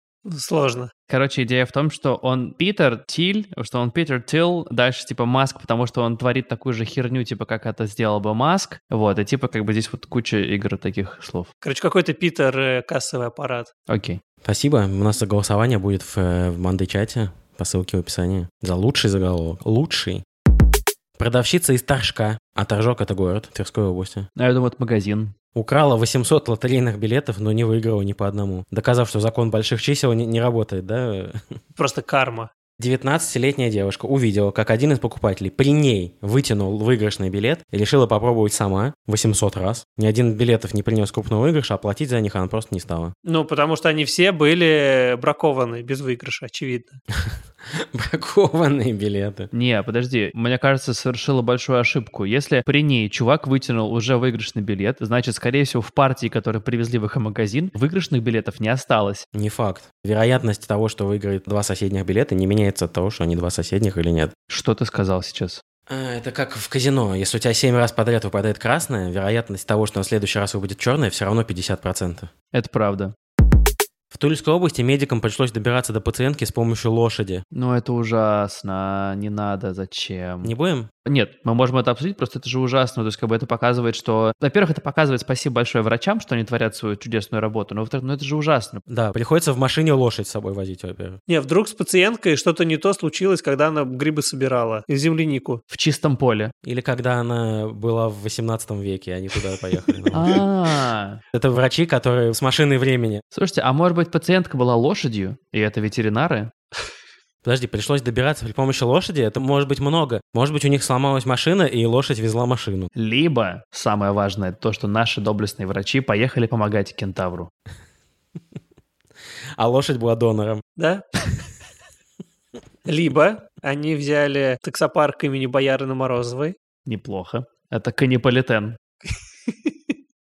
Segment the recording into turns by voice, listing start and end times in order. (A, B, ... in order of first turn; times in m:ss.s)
0:00.2-0:00.9 A
0:01.1-0:11.5 B
0:11.6-0:13.7 A
0:13.9-0:14.2 B
0:14.4-0:20.2 C
0:21.2-0:24.3 C
0:24.4-0:25.3 B
0:25.5-0:31.4 C
0:31.8-0:32.5 A
0:32.8-0:43.1 C
0:43.2-0:47.0 A
0:47.3-0:49.5 C
0:49.5-0:59.2 B
0:59.3-1:04.3 C
1:04.5-1:05.6 B
1:05.9-1:12.3 C
1:12.5-1:13.1 B
1:14.1-1:17.4 C
1:17.5-1:20.5 B
1:20.4-1:20.9 C
1:21.0-1:28.8 B
1:28.9-1:31.2 C
1:31.3-1:35.6 A
1:35.7-1:36.5 B
1:36.6-1:40.4 C
1:40.1-1:41.2 B
1:41.3-1:43.2 C
1:43.3-1:46.5 B
1:47.4-1:52.9 C
1:52.9-1:57.5 B
1:59.6-2:00.6 C
2:00.8-2:01.0 A
2:02.8-2:06.6 A
2:06.8-2:08.8 B